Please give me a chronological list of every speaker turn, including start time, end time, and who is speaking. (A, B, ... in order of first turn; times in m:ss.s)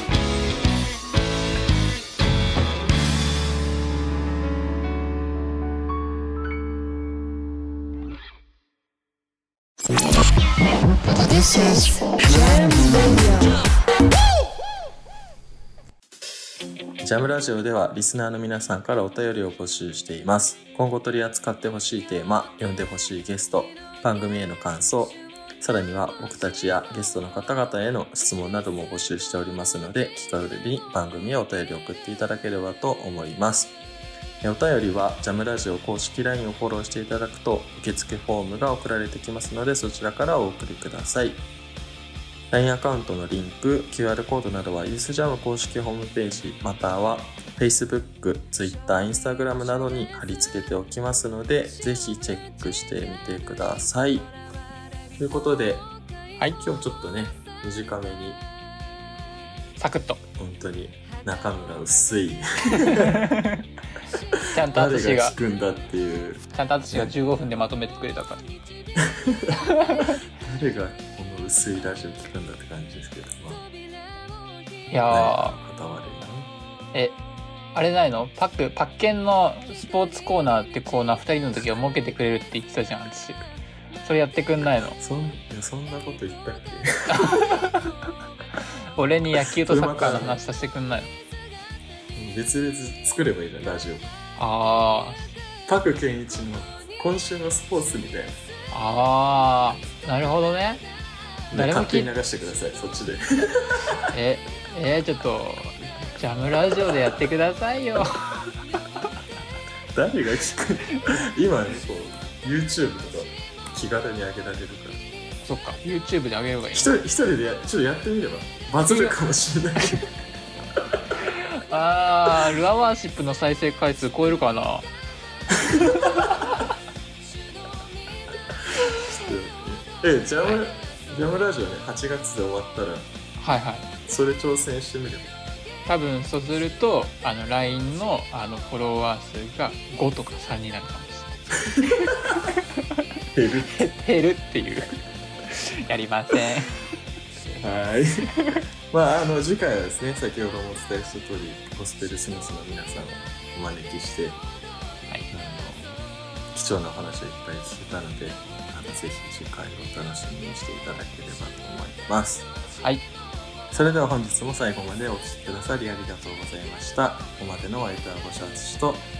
0:11.2-0:13.6 A
0:17.0-0:33.8 B
0:34.4-0:41.4 B
0:42.5-0:54.4 B
0:55.2-0:55.9 B
0:56.6-0:58.5 B
0:59.8-1:00.2 C
1:00.4-1:03.3 B
1:02.7-1:03.7 C
1:04.3-1:07.1 B
1:04.5-1:05.4 C
1:06.5-1:08.4 C
1:09.0-1:09.6 B
1:09.7-1:10.2 C
1:10.3-1:13.7 B
1:14.9-1:15.6 C
1:15.1-1:16.5 B
1:17.7-1:23.4 C
1:24.0-1:25.0 C
1:25.0-1:27.6 B
1:27.1-1:27.9 C
1:29.0-1:31.1 C
1:29.3-1:30.4 B
1:32.2-1:34.1 B
1:34.4-1:35.3 C
1:35.7-1:38.4 B
1:38.7-1:40.9 C
1:41.5-1:44.1 B
1:41.5-1:42.1 C
1:44.1-1:48.6 C
1:49.9-1:55.0 B
1:55.4-1:57.0 C
1:56.7-2:00.1 B
1:58.9-1:59.2 C
2:01.3-2:04.9 C
2:05.5-2:06.4 B
2:05.8-2:06.4 C
2:08.7-2:13.1 B
2:13.4-2:13.9 C
2:14.1-2:15.4 B
2:15.9-2:23.0 C
2:21.6-2:22.4 B
2:23.3-2:23.9 B
2:23.7-2:26.8 C
2:27.6-2:34.4 B
2:35.3-2:42.5 B
2:42.8-2:43.0 C
2:43.7-2:49.1 B